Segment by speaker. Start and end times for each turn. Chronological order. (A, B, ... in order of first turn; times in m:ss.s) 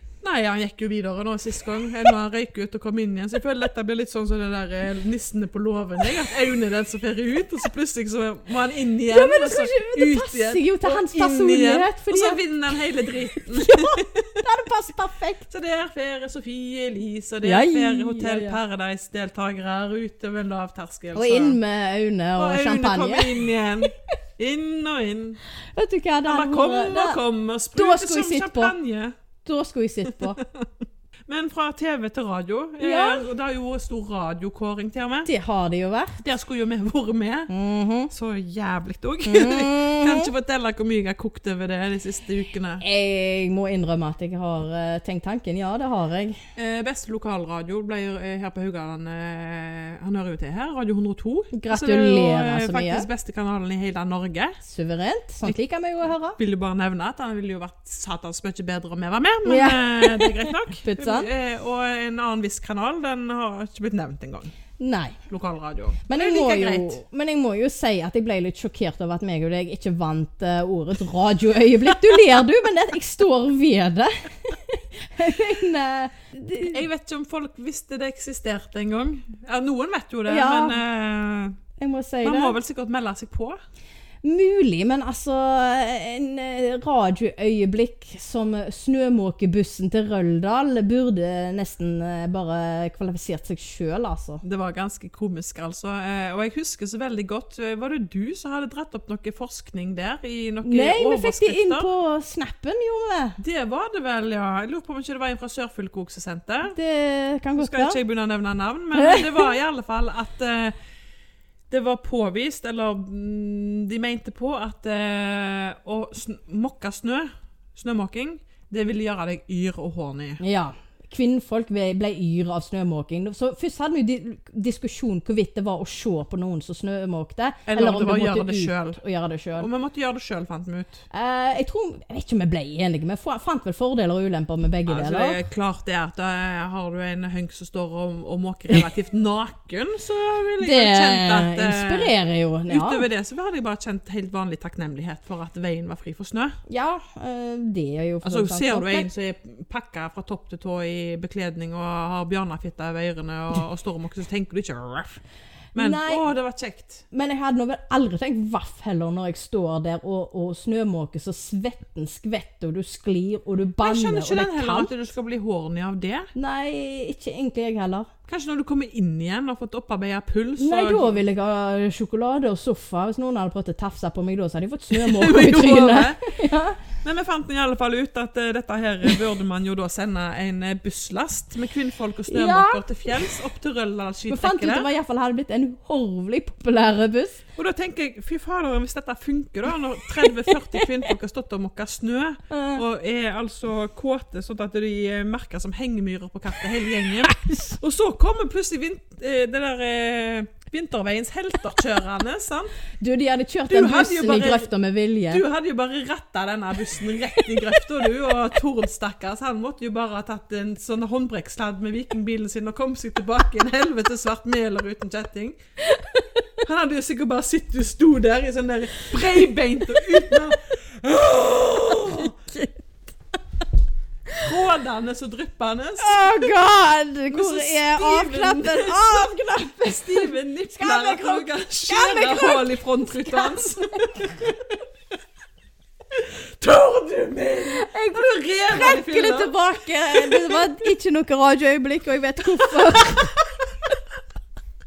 0:00.2-0:14.4 A
0:09.1-0:12.4 B
0:13.3-0:15.5 B
0:15.5-0:21.6 A
0:17.4-0:18.6 B
0:21.1-0:23.9 B
0:22.4-0:25.4 A
0:25.7-0:27.2 B
0:26.2-0:29.1 A
0:27.7-0:28.7 B
0:29.4-0:30.4 B
0:30.1-0:35.3 A
0:32.8-0:33.2 B
0:35.2-0:36.2 B
0:36.2-0:37.5 A
0:37.5-0:38.1 B
0:38.1-0:42.8 A
0:39.2-0:40.3 B
0:42.8-0:46.4 B
0:46.6-0:54.6 A
0:51.5-0:53.1 B
0:54.6-0:56.4 B
0:56.4-1:04.5 A
0:59.4-1:01.3 B
1:04.8-1:05.2 B
1:05.3-1:07.0 A
1:06.1-1:16.8 B
1:16.6-1:21.6 A
1:20.3-1:20.8 B
1:21.8-1:22.6 B
1:22.2-1:23.6 A
1:24.2-1:34.4 B
1:34.4-1:41.9 A
1:40.6-1:43.4 B
1:43.4-1:46.8 A
1:46.7-1:48.0 B
1:47.6-1:50.7 A
1:48.9-1:49.5 B
1:51.7-2:00.4 A
2:00.4-2:09.7 B
2:07.7-2:09.0 A
2:09.6-2:11.0 A
2:11.1-2:15.4 B
2:14.9-2:22.1 A
2:20.6-2:23.0 B
2:22.7-2:26.6 A
2:26.7-2:29.1 B
2:28.2-2:35.2 A
2:35.7-2:36.3 B
2:35.7-2:37.0 A
2:37.1-2:44.9 B
2:43.8-2:46.3 A
2:46.3-2:48.1 B
2:48.3-2:51.2 A
2:50.6-2:56.8 B
2:54.9-2:56.4 A
2:57.0-3:04.9 A
3:02.3-3:03.0 B
3:04.3-3:07.4 B
3:07.6-3:22.7 A
3:10.4-3:10.8 B
3:12.5-3:12.8 B
3:17.2-3:17.8 B
3:23.0-3:25.4 B
3:23.7-3:24.7 A
3:25.3-3:35.6 A
3:35.8-3:36.2 B
3:36.6-3:42.3 A
3:41.8-3:42.7 B
3:44.3-3:46.2 A
3:46.0-3:54.0 B
3:47.3-3:54.6 A
3:56.1-3:59.5 A
3:57.7-4:03.4 B
4:00.1-4:00.7 A